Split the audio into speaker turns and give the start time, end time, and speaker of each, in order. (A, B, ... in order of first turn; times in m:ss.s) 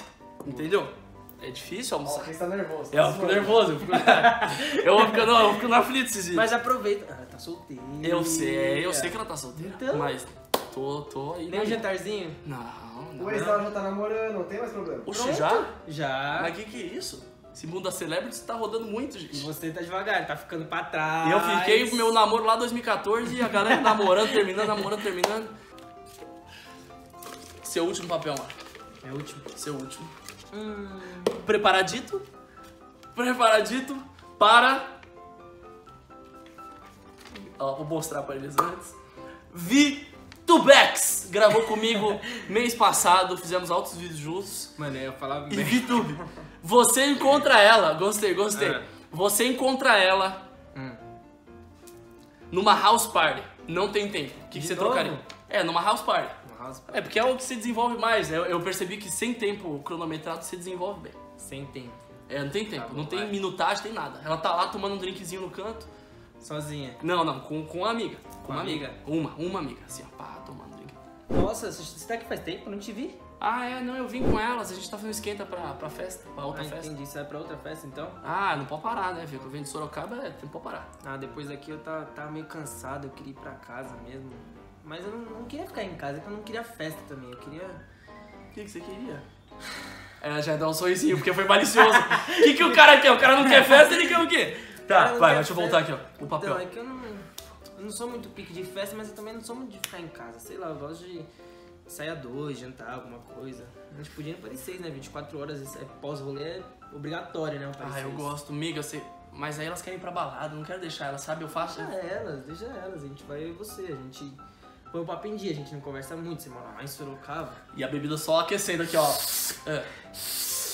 0:00.4-0:02.3 A
0:02.0-0:03.7 B
0:02.9-0:06.5 A
0:03.9-0:05.6 C
0:06.3-0:10.1 C
0:08.0-0:11.8 A
0:11.5-0:12.4 C
0:12.4-0:13.6 A
0:13.2-0:15.2 B
0:15.1-0:15.7 A
0:15.1-0:16.5 C
0:16.4-0:19.5 A
0:19.3-0:22.1 C
0:21.2-0:25.5 A
0:23.6-0:24.2 C
0:27.6-0:28.6 A
0:29.0-0:29.5 C
0:29.6-0:30.1 A
0:30.5-0:31.4 C
0:31.4-0:32.2 A
0:33.2-0:34.9 A
0:37.6-0:38.9 A
0:39.5-0:44.7 A
0:44.8-0:46.0 C
0:45.5-0:50.4 A
0:48.6-0:48.8 C
0:50.8-0:51.0 C
0:52.5-1:01.2 A
0:54.5-0:55.2 C
0:56.4-0:57.1 C
1:01.4-1:02.0 C
1:02.3-1:05.9 A
1:02.7-1:03.3 C
1:06.4-1:07.0 C
1:07.0-1:11.0 A
1:08.4-1:09.0 C
1:11.3-1:13.2 C
1:13.4-1:16.9 A
1:16.5-1:18.2 C
1:18.2-1:20.9 A
1:21.0-1:27.8 C
1:28.5-1:29.2 A
1:30.2-1:36.6 A
1:32.0-1:32.8 C
1:33.4-1:34.0 C
1:34.9-1:41.3 C
1:41.9-1:48.3 C
1:47.8-1:51.9 A
1:51.6-1:54.4 C
1:54.9-1:57.6 C
1:57.7-2:00.4 A